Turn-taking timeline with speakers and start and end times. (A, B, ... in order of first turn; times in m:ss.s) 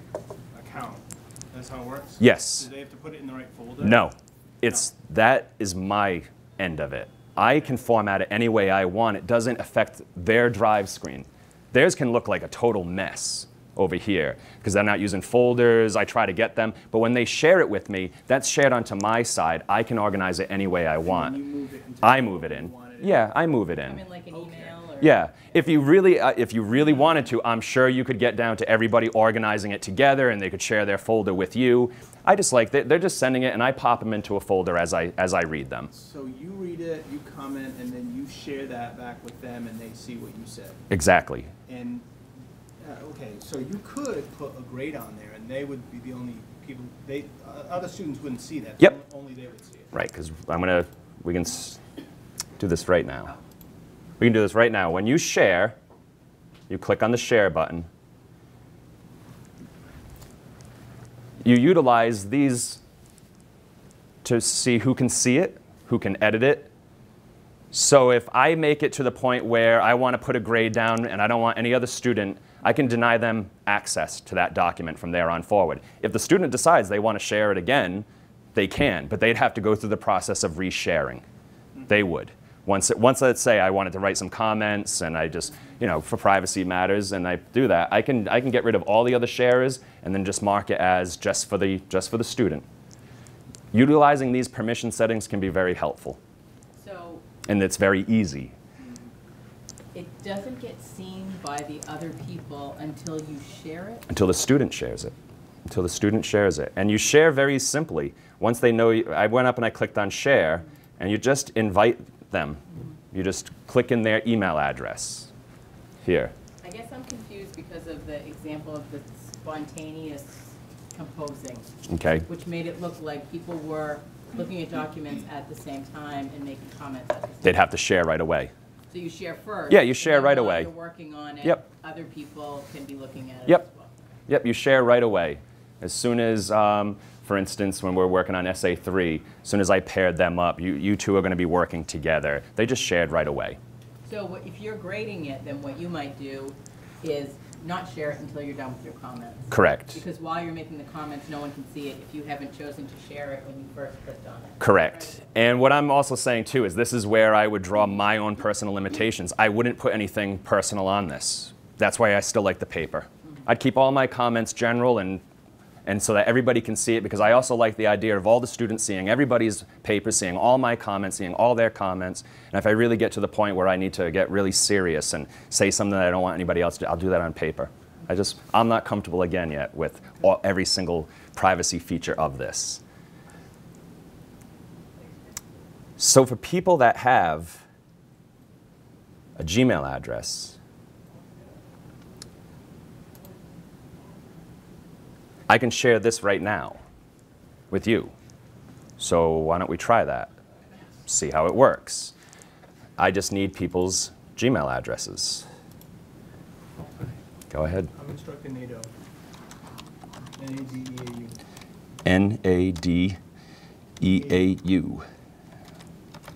0:00.5-0:04.0 A
0:02.2-0:02.7 B
0:03.8-0:21.4 B
0:21.0-0:23.3 A
0:22.0-0:24.0 B
0:23.8-0:25.2 C
0:24.4-0:24.7 A
0:25.0-0:35.9 B
0:35.9-0:40.8 A
0:40.9-0:41.5 B
0:41.6-0:42.0 A
0:42.8-0:49.9 A
0:49.9-0:51.8 B
0:52.6-0:53.3 B
0:54.2-0:55.8 B
0:56.7-0:57.9 B
1:01.4-1:02.8 B
1:04.2-1:06.7 B
1:07.7-1:21.2 B
1:21.9-1:32.6 B
1:33.7-1:36.2 B
1:36.8-1:37.2 C
1:37.4-1:38.5 B
1:39.9-1:44.0 C
1:44.1-1:45.1 B
1:45.6-1:55.3 B
1:56.0-1:56.3 B
1:56.6-2:01.7 C
2:01.9-2:02.2 B
2:02.2-2:07.6 C
2:07.4-2:08.5 B
2:08.9-2:13.9 C
2:09.7-2:10.7 B
2:14.3-2:23.6 B
2:24.0-2:35.2 C
2:29.5-2:30.0 B
2:34.6-2:45.2 B
2:45.8-3:02.8 B
3:06.0-3:07.6 B
3:09.4-3:10.6 B
3:15.5-3:16.8 B
3:17.7-3:18.1 B
3:19.0-3:20.3 B
3:21.0-3:22.1 B
3:23.0-3:25.4 B
3:27.5-3:27.9 B
3:27.9-3:28.9 A
3:30.4-3:31.4 A
3:32.0-3:33.2 B
3:34.0-3:35.0 B